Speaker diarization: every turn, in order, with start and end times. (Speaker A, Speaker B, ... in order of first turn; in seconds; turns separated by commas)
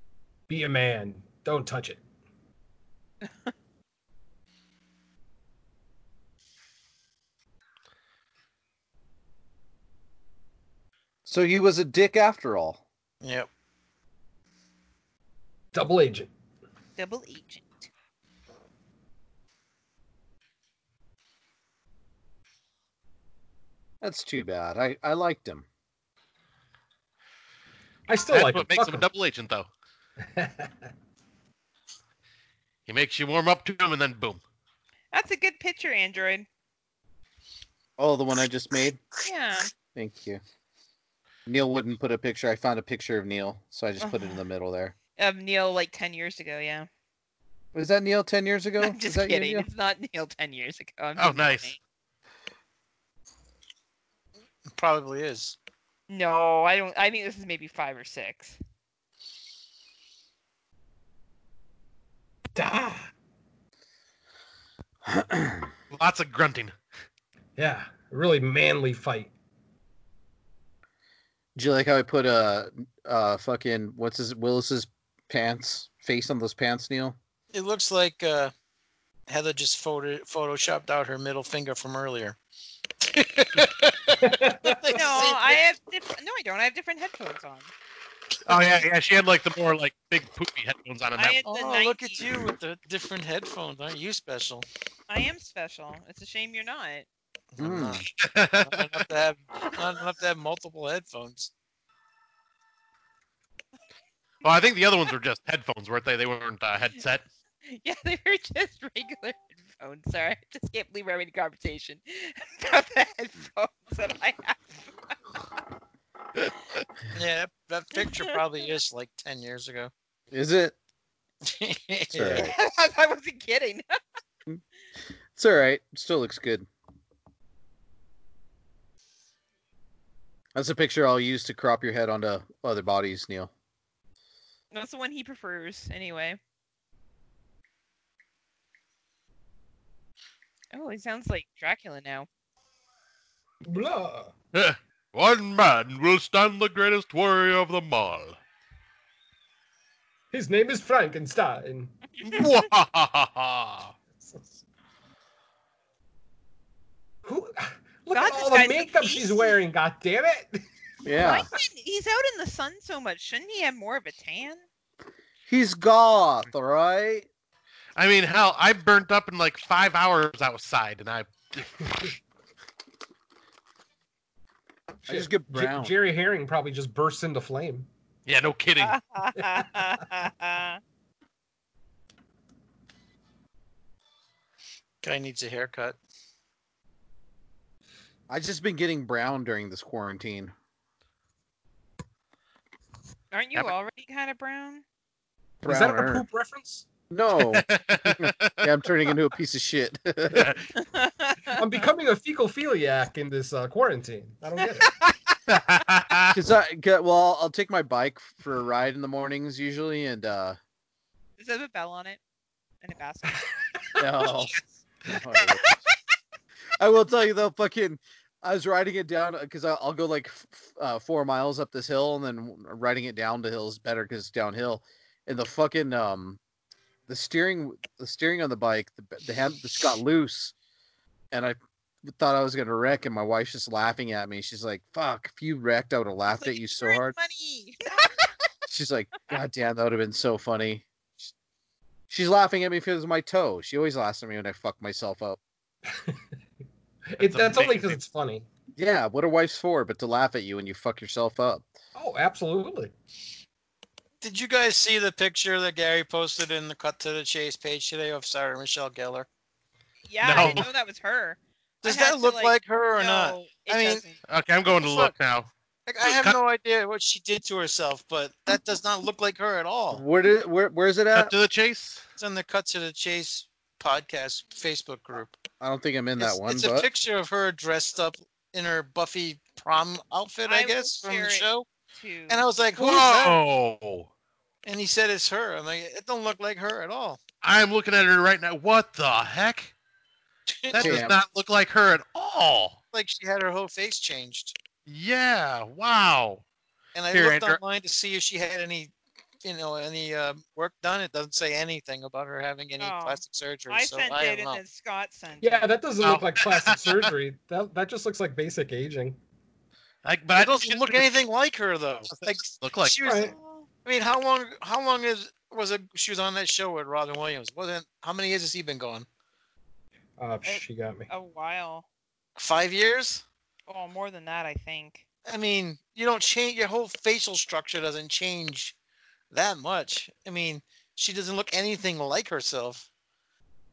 Speaker A: 0.5-2.0, Speaker B: 11.3-12.8, Speaker C: 13.2-13.5, Speaker A: 15.7-16.3, Speaker D: 17.0-17.9, Speaker B: 24.0-25.6, Speaker A: 28.1-29.1, Speaker E: 28.3-29.7, Speaker A: 30.3-30.7, Speaker E: 32.9-34.4, Speaker D: 35.1-36.5, Speaker B: 38.0-39.0, Speaker D: 39.2-39.7, Speaker B: 40.0-40.4, Speaker B: 41.5-45.0, Speaker D: 44.0-44.4, Speaker D: 45.2-46.9, Speaker B: 47.7-49.7, Speaker D: 48.8-51.8, Speaker E: 51.2-51.7, Speaker C: 54.7-55.6, Speaker D: 56.1-58.6, Speaker A: 62.5-63.1, Speaker B: 65.0-65.7, Speaker E: 65.9-66.7, Speaker A: 67.6-69.3, Speaker B: 71.5-77.2, Speaker C: 77.5-78.5, Speaker C: 79.3-82.4, Speaker C: 83.1-83.7, Speaker E: 83.5-84.2, Speaker A: 84.2-85.0, Speaker C: 84.6-85.6, Speaker D: 84.9-87.7, Speaker E: 88.5-91.4, Speaker D: 91.2-92.2, Speaker C: 91.5-94.7, Speaker D: 95.1-97.1, Speaker C: 97.5-98.1, Speaker B: 97.6-98.0, Speaker E: 98.2-99.0, Speaker C: 98.6-101.5, Speaker E: 104.4-107.2, Speaker D: 107.7-114.7, Speaker C: 117.1-119.9, Speaker D: 118.0-118.3, Speaker B: 120.3-120.8, Speaker C: 121.4-122.5, Speaker B: 122.1-122.5, Speaker D: 122.3-123.8, Speaker B: 125.3-126.7, Speaker B: 130.6-133.5, Speaker D: 134.7-136.4, Speaker D: 140.7-142.3, Speaker A: 143.6-144.3, Speaker E: 144.5-148.4, Speaker A: 150.3-152.0, Speaker D: 152.2-152.5, Speaker E: 152.2-153.9, Speaker A: 154.2-154.5, Speaker A: 157.2-160.6, Speaker D: 158.1-159.6, Speaker B: 161.0-161.5, Speaker D: 161.2-164.6, Speaker B: 165.5-167.3, Speaker E: 168.0-172.2, Speaker A: 175.1-177.9, Speaker B: 175.1-175.9, Speaker E: 178.3-179.0, Speaker D: 178.8-180.8, Speaker A: 179.4-179.7, Speaker C: 185.0-186.0, Speaker B: 188.3-190.5, Speaker D: 193.3-194.8, Speaker B: 195.6-196.2, Speaker A: 195.6-196.9, Speaker B: 197.1-200.5, Speaker E: 197.4-198.7, Speaker E: 200.3-200.7, Speaker D: 200.8-201.6, Speaker A: 201.5-204.9, Speaker D: 204.9-205.2, Speaker E: 205.5-206.4, Speaker B: 206.3-210.6, Speaker D: 211.4-212.2, Speaker D: 212.8-214.6, Speaker B: 214.0-214.5, Speaker B: 215.1-215.8, Speaker D: 215.4-215.7, Speaker B: 216.8-226.4, Speaker B: 227.1-230.5, Speaker B: 231.3-237.2, Speaker D: 236.3-238.3, Speaker B: 238.7-240.9, Speaker B: 242.1-245.4, Speaker A: 247.2-248.4, Speaker E: 247.2-248.0, Speaker B: 248.8-251.7, Speaker A: 251.9-252.9, Speaker C: 254.2-259.3, Speaker D: 260.1-264.2, Speaker E: 260.2-260.7, Speaker C: 260.4-260.6, Speaker C: 261.8-264.0, Speaker E: 264.3-265.5, Speaker C: 264.7-265.1, Speaker C: 265.9-270.0, Speaker E: 266.0-266.4, Speaker B: 269.9-271.3, Speaker E: 271.1-272.0, Speaker C: 272.2-275.4, Speaker B: 275.6-276.9, Speaker C: 276.2-281.7, Speaker D: 280.5-282.4, Speaker C: 282.3-283.4, Speaker E: 282.8-284.1, Speaker C: 284.6-287.2, Speaker E: 287.4-289.7, Speaker C: 290.5-291.1, Speaker E: 290.7-292.8, Speaker B: 290.8-291.2, Speaker C: 292.9-294.6, Speaker E: 294.9-296.4, Speaker C: 296.9-304.6, Speaker E: 297.1-297.6, Speaker D: 302.8-305.7, Speaker A: 305.4-309.2, Speaker E: 306.0-307.1, Speaker E: 310.0-311.1, Speaker C: 310.4-319.1, Speaker E: 312.1-313.0, Speaker A: 313.0-313.3, Speaker D: 313.3-313.7, Speaker A: 320.2-321.1, Speaker D: 320.4-321.9, Speaker C: 322.4-323.2, Speaker D: 323.7-325.0, Speaker C: 325.3-328.8, Speaker C: 329.3-332.9